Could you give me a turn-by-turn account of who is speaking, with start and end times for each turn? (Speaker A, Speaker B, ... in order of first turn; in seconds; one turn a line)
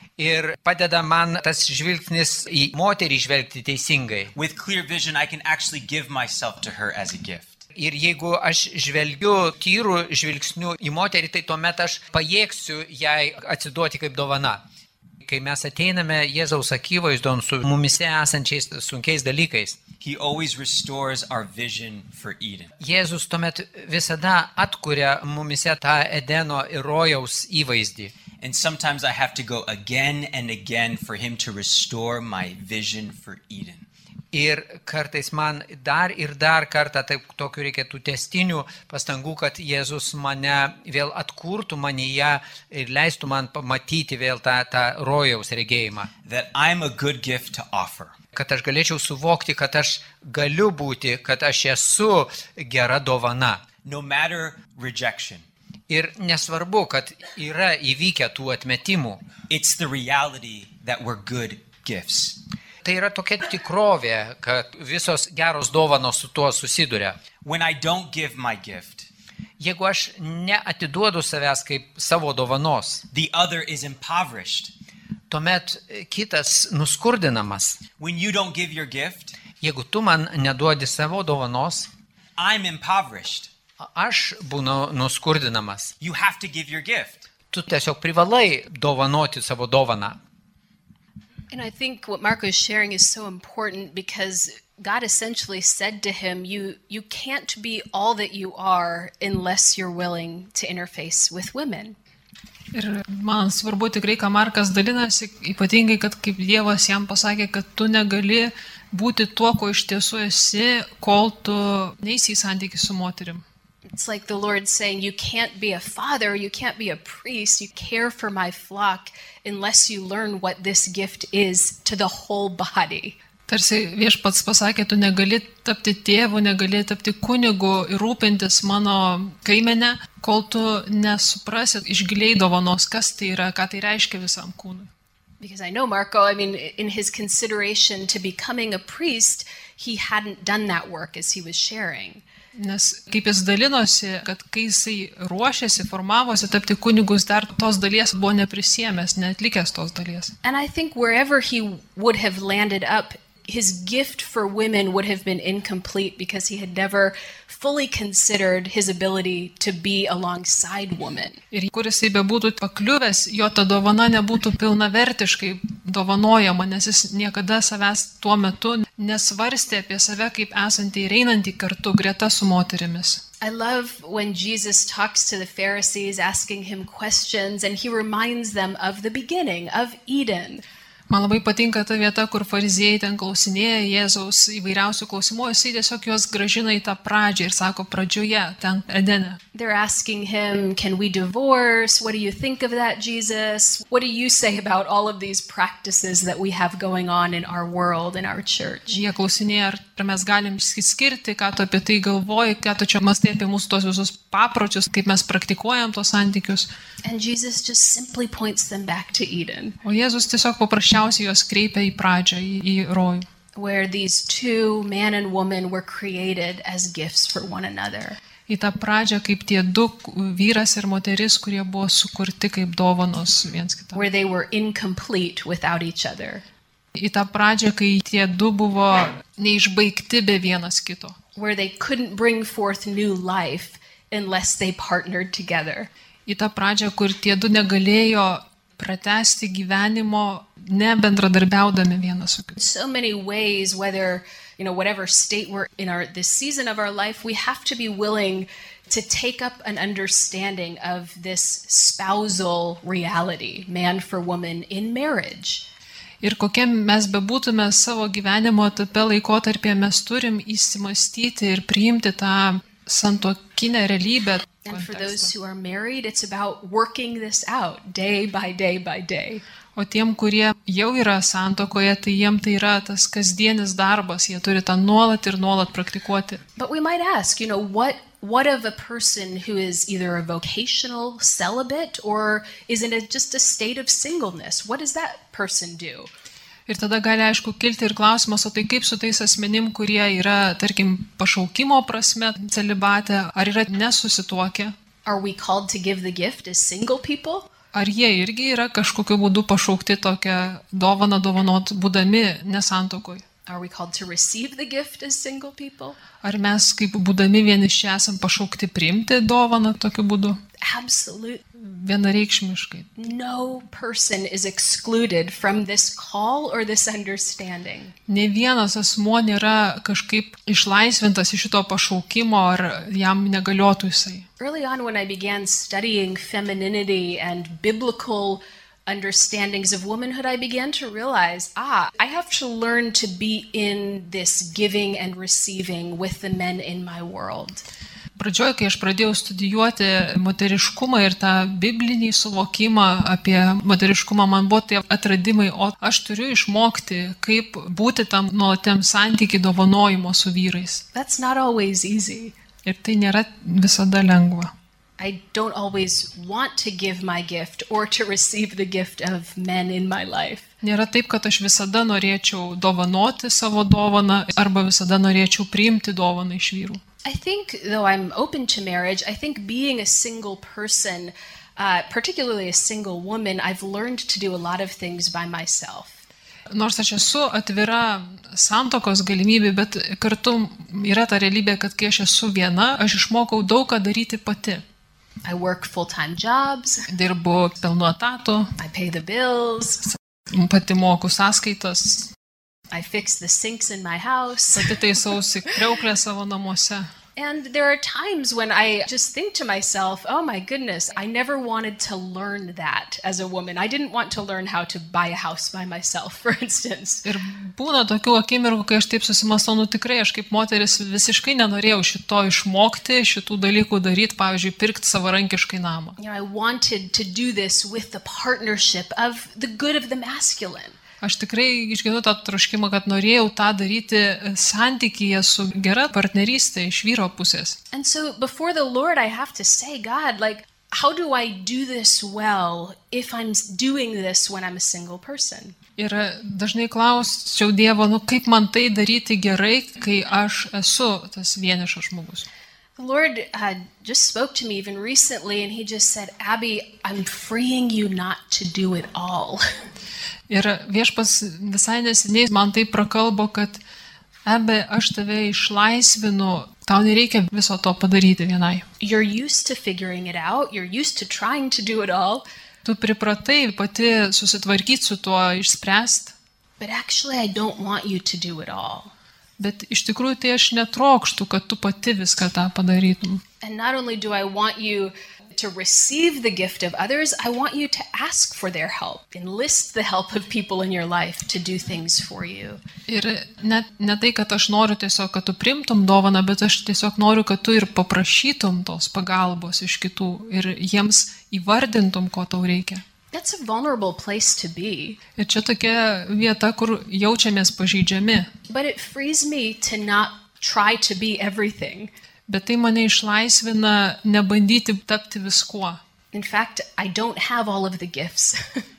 Speaker A: 0.2-4.3
Speaker B: 4.3-7.6
Speaker A: 7.7-14.6
Speaker A: 15.2-19.8
Speaker B: 20.0-22.7
Speaker A: 22.8-28.1
Speaker B: 28.4-33.9
Speaker A: 34.3-46.1
Speaker B: 46.2-48.1
Speaker A: 48.3-53.6
Speaker B: 53.8-55.5
Speaker A: 55.9-59.2
Speaker B: 59.5-62.4
Speaker A: 62.8-67.2
Speaker B: 67.4-69.1
Speaker A: 69.6-73.0
Speaker B: 73.1-74.7
Speaker A: 75.3-77.8
Speaker B: 78.0-79.4
Speaker A: 79.6-81.9
Speaker B: 82.4-83.5
Speaker A: 83.8-85.9
Speaker B: 86.0-87.3
Speaker A: 87.5-90.2
Speaker C: 91.5-102.0
Speaker D: 102.7-113.4
Speaker C: 113.9-123.2
Speaker D: 123.5-134.9
Speaker C: 135.4-142.2
Speaker D: 142.5-150.3
Speaker C: 150.4-161.4
Speaker D: 161.5-173.2
Speaker C: 173.4-180.6
Speaker D: 181.1-189.4
Speaker C: 189.5-198.9
Speaker D: 198.9-206.7
Speaker C: 207.0-209.8
Speaker D: 209.8-213.2
Speaker C: 213.5-218.2
Speaker D: 218.5-224.0
Speaker C: 223.9-226.4
Speaker D: 226.9-231.2
Speaker C: 231.3-235.9
Speaker D: 236.2-242.6
Speaker C: 242.6-255.7
Speaker D: 256.2-265.3
Speaker C: 264.6-269.4
Speaker D: 269.8-276.4
Speaker C: 276.6-286.1
Speaker D: 286.7-294.7
Speaker C: 295.1-297.5
Speaker D: 297.7-303.2
Speaker C: 303.5-306.0
Speaker D: 306.2-310.4
Speaker C: 310.6-311.4
Speaker D: 311.6-313.0
Speaker C: 313.0-317.9
Speaker D: 318.1-324.2
Speaker C: 324.4-337.6
Speaker D: 338.2-350.8
Speaker C: 350.9-352.4
Speaker D: 352.6-354.5
Speaker C: 355.0-360.5
Speaker D: 360.6-366.8
Speaker C: 367.0-376.0
Speaker D: 376.5-384.6
Speaker C: 385.2-386.8
Speaker D: 386.9-388.5
Speaker C: 388.6-389.9
Speaker D: 390.3-392.1
Speaker C: 392.7-394.8
Speaker D: 394.6-396.9
Speaker C: 397.1-407.0
Speaker D: 407.0-416.0
Speaker C: 416.0-420.8
Speaker D: 421.0-427.6
Speaker C: 427.7-435.6
Speaker D: 435.8-442.2
Speaker C: 442.8-449.4
Speaker D: 450.3-453.6
Speaker D: 454.2-458.6
Speaker C: 458.8-462.2
Speaker D: 462.6-466.1
Speaker C: 466.6-468.9
Speaker D: 469.4-473.2
Speaker C: 473.4-482.6
Speaker D: 482.9-492.8
Speaker C: 493.1-495.0
Speaker D: 495.2-498.3
Speaker C: 498.5-501.9
Speaker D: 502.3-505.8
Speaker C: 506.1-508.6